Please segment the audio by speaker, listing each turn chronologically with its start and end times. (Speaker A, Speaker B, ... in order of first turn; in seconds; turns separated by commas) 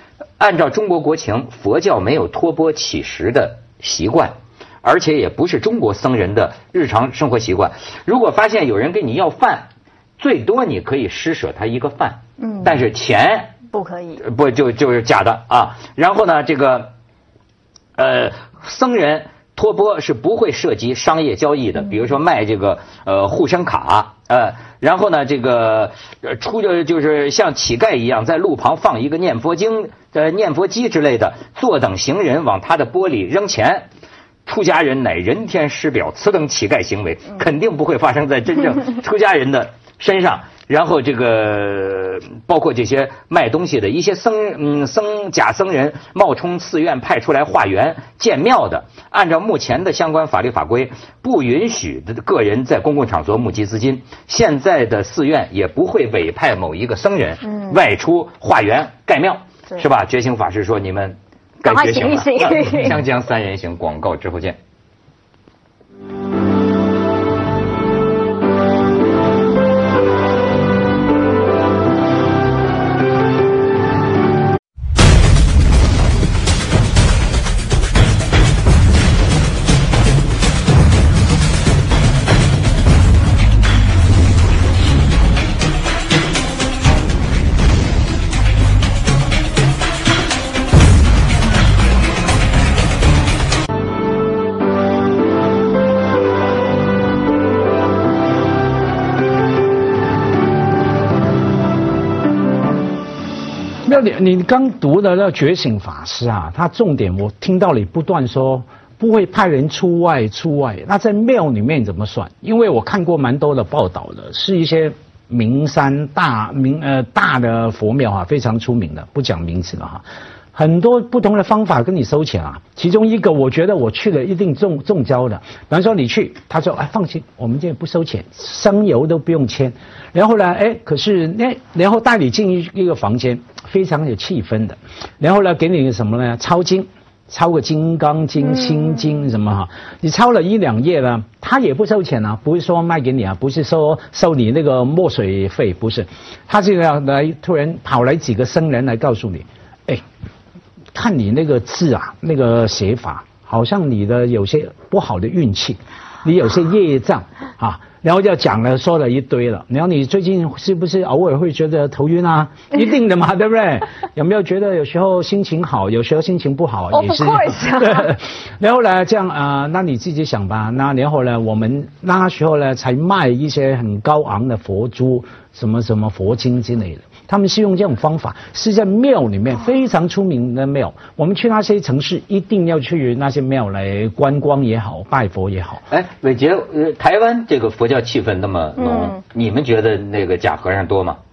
Speaker A: 0.4-13.5, Speaker B: 12.4-12.8, Speaker B: 13.7-14.2, Speaker A: 14.2-16.9, Speaker A: 17.9-33.9, Speaker A: 34.5-64.6, Speaker B: 57.5-57.8, Speaker B: 61.6-63.0, Speaker C: 103.8-150.0, Speaker C: 150.9-185.8, Speaker B: 166.9-168.1, Speaker A: 185.9-191.2, Speaker B: 188.8-189.2